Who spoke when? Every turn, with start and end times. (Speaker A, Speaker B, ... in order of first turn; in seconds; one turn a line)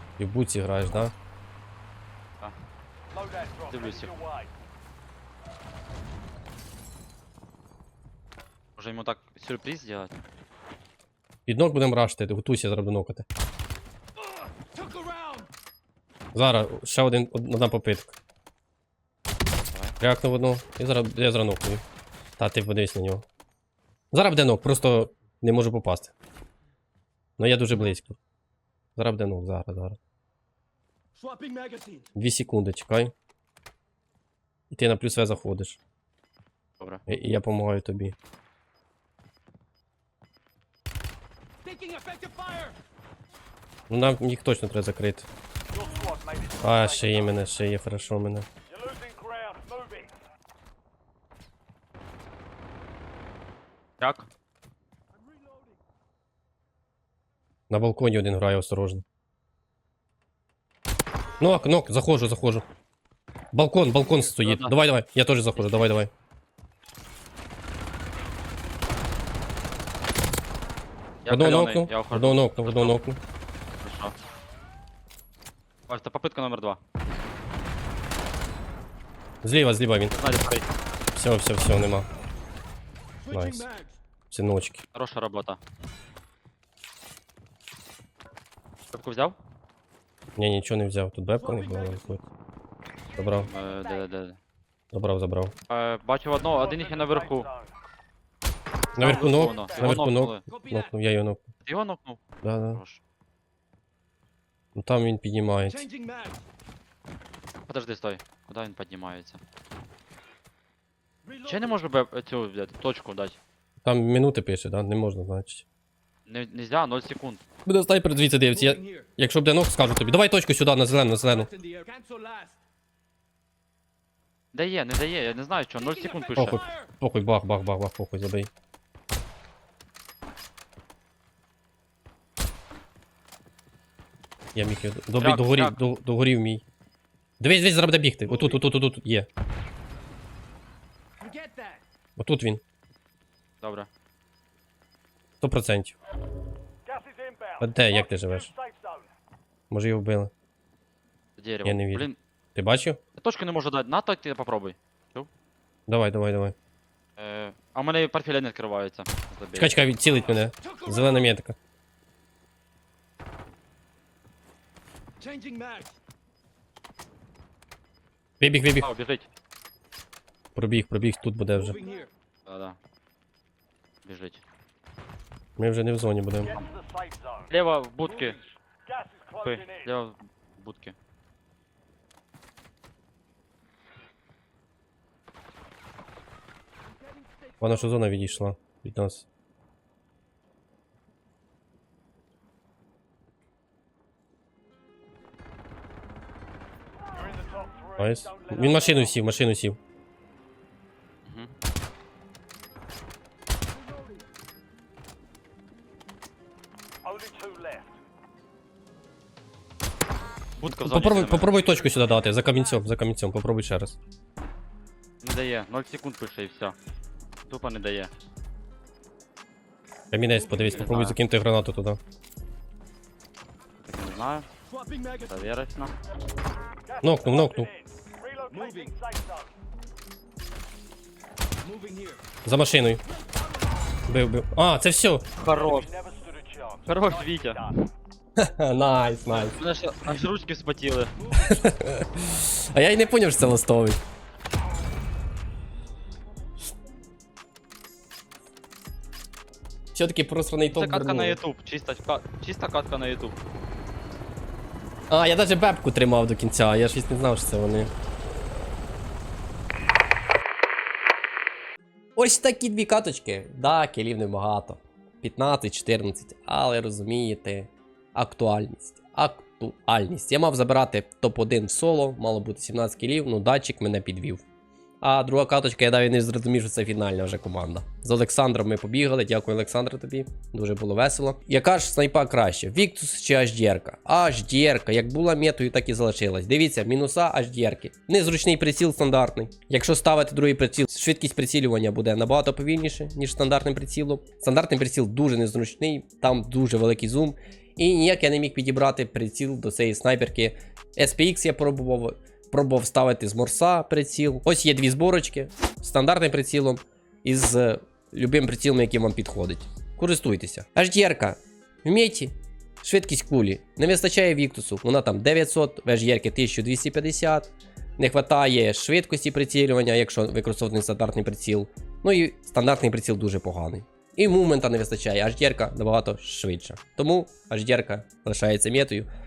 Speaker A: 0.2-1.1
Speaker B: 3.1-4.5
Speaker C: 3.7-4.1
Speaker C: 8.8-10.1
Speaker A: 11.5-13.2
Speaker D: 14.2-15.5
Speaker A: 16.3-18.1
Speaker A: 20.0-21.8
Speaker A: 22.4-23.2
Speaker A: 24.1-26.1
Speaker A: 27.4-28.2
Speaker A: 29.0-30.0
Speaker D: 31.1-32.1
Speaker A: 32.1-33.1
Speaker A: 34.7-35.8
Speaker A: 37.1-38.1
Speaker D: 41.6-42.8
Speaker A: 43.9-45.3
Speaker B: 45.7-47.4
Speaker A: 46.6-48.5
Speaker B: 48.7-50.1
Speaker C: 54.0-54.3
Speaker D: 55.1-55.8
Speaker A: 57.7-59.0
Speaker A: 61.4-62.6
Speaker A: 63.5-66.1
Speaker C: 64.3-64.8
Speaker C: 65.5-66.0
Speaker C: 71.2-73.0
Speaker A: 71.3-73.2
Speaker C: 73.8-74.1
Speaker C: 75.9-76.8
Speaker A: 79.4-80.1
Speaker C: 80.1-80.7
Speaker A: 81.2-82.1
Speaker D: 83.2-84.0
Speaker A: 83.3-83.7
Speaker A: 84.3-84.8
Speaker C: 84.9-85.6
Speaker C: 88.9-89.3
Speaker A: 90.4-92.2
Speaker D: 91.3-92.3
Speaker A: 93.2-93.5
Speaker D: 93.2-94.0
Speaker C: 93.5-94.4
Speaker A: 94.9-95.5
Speaker C: 95.7-97.5
Speaker B: 96.5-97.7
Speaker D: 98.9-101.0
Speaker A: 98.9-101.5
Speaker C: 99.0-100.4
Speaker C: 101.6-102.2
Speaker A: 102.4-102.8
Speaker C: 102.7-103.0
Speaker A: 104.7-105.8
Speaker D: 105.6-106.5
Speaker C: 107.7-109.4
Speaker D: 111.2-111.8
Speaker C: 111.5-113.4
Speaker A: 113.8-115.6
Speaker C: 116.3-117.4
Speaker A: 117.7-121.5
Speaker D: 118.5-119.1
Speaker D: 121.2-122.6
Speaker C: 124.5-126.6
Speaker D: 125.8-126.9
Speaker A: 126.3-128.5
Speaker A: 134.5-136.6
Speaker C: 135.2-135.8
Speaker A: 137.4-139.3
Speaker D: 138.2-138.6
Speaker D: 141.2-141.8
Speaker A: 142.2-142.6
Speaker C: 143.6-143.9
Speaker A: 145.4-145.9
Speaker B: 146.8-149.1
Speaker A: 147.6-148.5
Speaker A: 149.7-150.3
Speaker C: 151.4-152.2
Speaker A: 151.6-153.0
Speaker C: 153.2-155.3
Speaker A: 155.9-156.5
Speaker C: 157.2-159.8
Speaker A: 159.6-161.6
Speaker D: 160.0-161.3
Speaker D: 165.2-166.0
Speaker A: 168.4-168.9
Speaker C: 168.8-169.3
Speaker A: 170.5-171.8
Speaker D: 171.5-172.1
Speaker C: 172.5-172.8
Speaker C: 174.0-174.4
Speaker A: 175.6-176.5
Speaker B: 176.4-177.5
Speaker C: 177.5-178.4
Speaker D: 178.0-178.5
Speaker B: 178.8-179.9
Speaker C: 179.4-180.9
Speaker D: 186.8-188.3
Speaker A: 187.6-189.2
Speaker B: 197.1-199.2
Speaker A: 198.0-199.8
Speaker C: 201.2-201.5
Speaker D: 203.7-204.2
Speaker B: 207.0-208.0
Speaker C: 210.6-211.6
Speaker A: 210.8-214.0
Speaker D: 211.4-212.8
Speaker C: 215.2-216.8
Speaker C: 217.5-218.1
Speaker A: 220.1-222.0
Speaker D: 220.3-221.0
Speaker C: 220.7-221.2
Speaker C: 223.8-224.5
Speaker D: 224.6-225.6
Speaker C: 225.3-225.9
Speaker B: 226.8-229.6
Speaker A: 227.0-227.7
Speaker D: 228.5-228.9
Speaker D: 231.6-232.2
Speaker A: 232.4-233.0
Speaker D: 233.1-234.0
Speaker A: 234.1-235.3
Speaker C: 235.4-235.9
Speaker B: 235.4-237.8
Speaker C: 236.9-237.7
Speaker A: 238.4-239.6
Speaker C: 239.3-241.1
Speaker D: 241.2-241.7
Speaker A: 241.4-244.0
Speaker A: 249.9-251.4
Speaker C: 250.7-253.4
Speaker A: 255.1-257.9
Speaker A: 262.1-274.4
Speaker A: 275.0-329.1